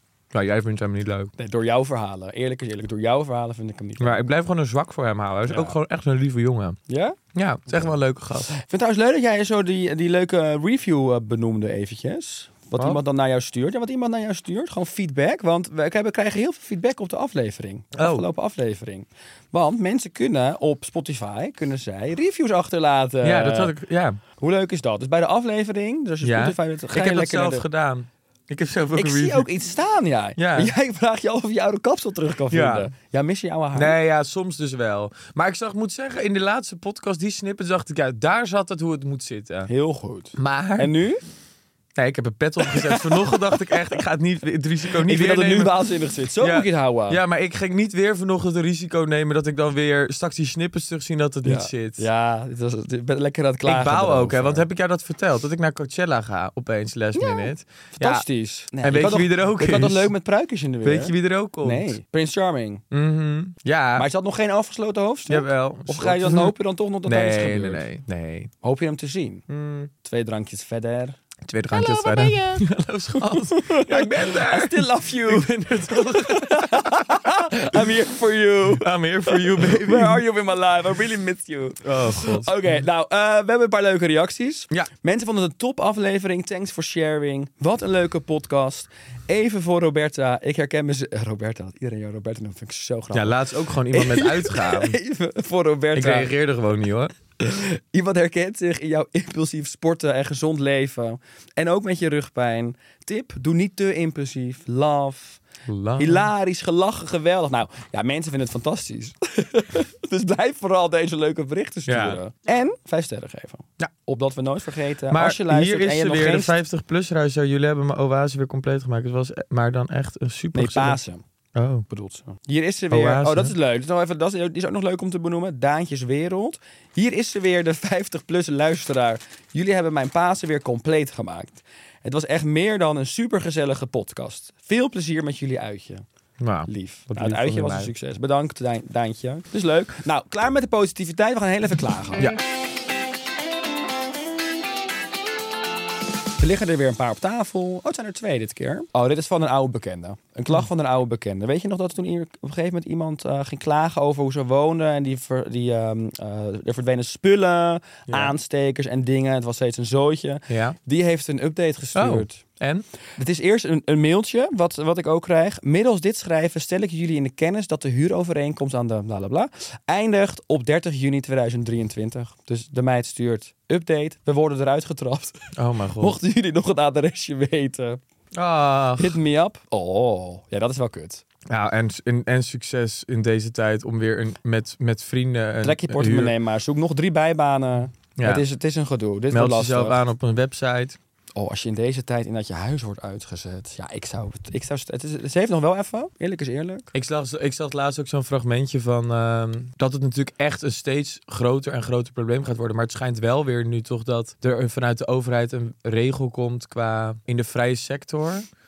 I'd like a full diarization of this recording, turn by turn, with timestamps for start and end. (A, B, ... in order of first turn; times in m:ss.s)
0:00.3-0:01.3 A
0:01.4-0:04.2 B
0:04.0-0:06.8 A
0:05.5-0:05.8 B
0:06.9-0:07.2 B
0:07.3-0:08.5 A
0:08.5-0:23.7 B
0:18.0-0:18.3 A
0:23.2-0:24.2 A
0:24.4-0:27.7 B
0:26.2-0:29.5 A
0:29.0-0:34.0 B
0:30.4-0:30.7 A
0:32.5-0:32.9 A
0:33.7-0:39.7 A
0:39.7-0:41.2 B
0:40.4-0:40.9 A
0:42.0-0:45.8 A
0:42.6-0:43.8 B
0:45.0-0:47.2 B
0:46.4-0:52.1 A
0:51.4-0:54.7 B
0:53.6-0:58.2 A
0:57.2-1:02.8 B
0:58.8-1:00.1 A
1:00.8-1:01.9 A
1:02.9-1:04.1 A
1:04.0-1:07.8 B
1:05.3-1:08.5 A
1:08.6-1:09.4 B
1:09.5-1:09.9 A
1:10.0-1:11.2 B
1:11.5-1:17.8 A
1:11.8-1:12.6 B
1:13.2-1:36.3 B
1:18.8-1:20.2 A
1:21.8-1:22.6 A
1:33.1-1:35.0 A
1:36.0-1:37.1 A
1:37.4-1:45.4 B
1:45.7-1:46.3 A
1:46.0-1:56.5 B
1:51.9-1:52.2 A
1:55.1-2:01.0 A
2:00.5-2:01.2 B
2:01.6-2:01.8 A
2:01.9-2:16.0 B
2:02.9-2:03.6 A
2:16.4-2:17.9 A
2:16.7-2:22.3 B
2:26.4-2:42.4 B
2:40.5-2:40.8 A
2:42.0-2:42.9 A
2:43.2-2:55.4 B
2:55.6-2:56.2 A
2:56.0-2:58.0 B
2:58.3-2:59.2 A
2:59.0-3:01.2 B
3:01.5-3:06.3 A
3:05.6-3:10.0 B
3:08.2-3:08.4 A
3:09.3-3:11.0 A
3:11.4-3:16.8 B
3:16.9-3:28.5 A